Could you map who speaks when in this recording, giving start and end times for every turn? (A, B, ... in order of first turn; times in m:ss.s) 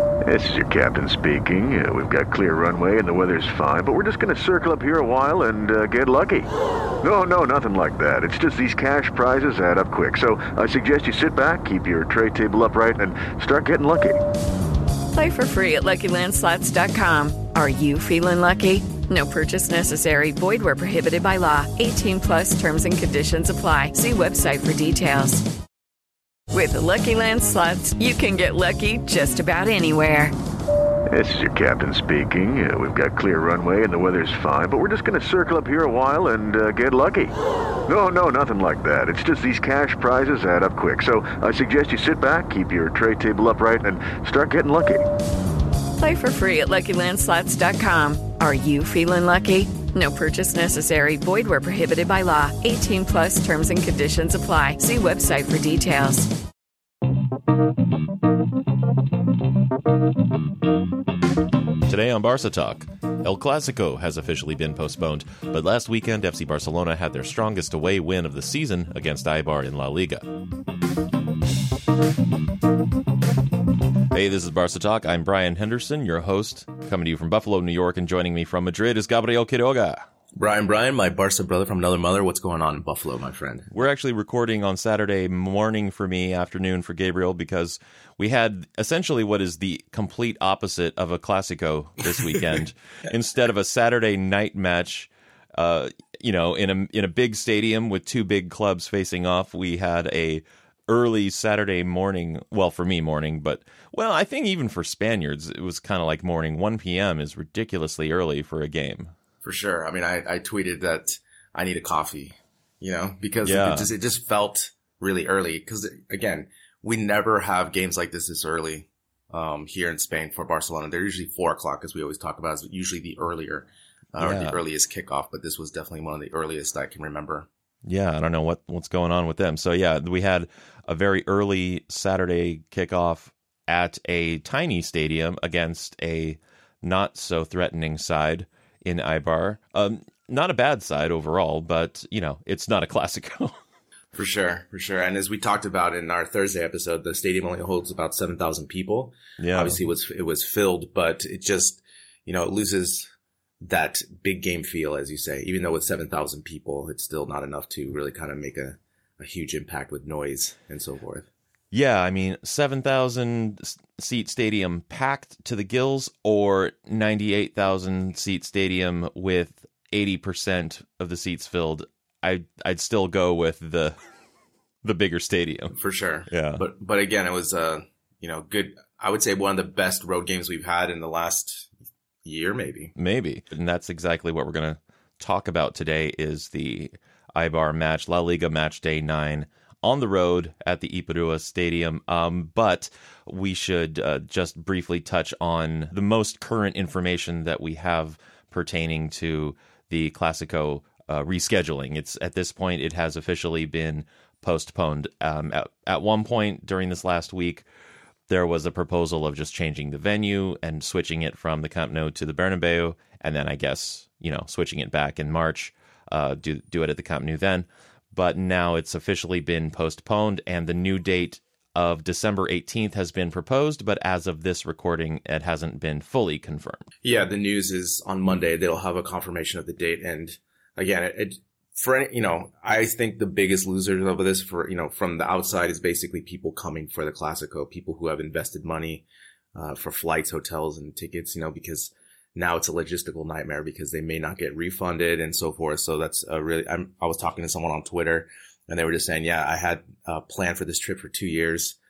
0:00.2-0:06.5 A
0:07.0-0:14.2 A
0:15.1-0:25.4 B
0:26.5-0:30.3 B
0:31.1-0:37.3 A
0:37.9-0:45.0 A
0:46.0-0:56.3 B
1:01.9-1:10.3 C
1:14.1-1:20.0 C
1:20.4-1:23.7 D
1:23.7-1:49.1 C
1:49.4-2:07.5 D
1:53.4-1:53.9 C
2:04.2-2:04.6 C
2:07.8-2:23.6 C
2:24.1-2:41.3 D
2:29.4-2:29.8 C
2:41.7-2:54.0 C
2:54.8-2:55.8 C
2:55.8-3:01.7 D
2:56.3-2:56.6 C
3:02.2-3:02.9 D
3:03.0-3:27.7 C
3:28.3-3:46.8 C
3:47.0-4:11.8 D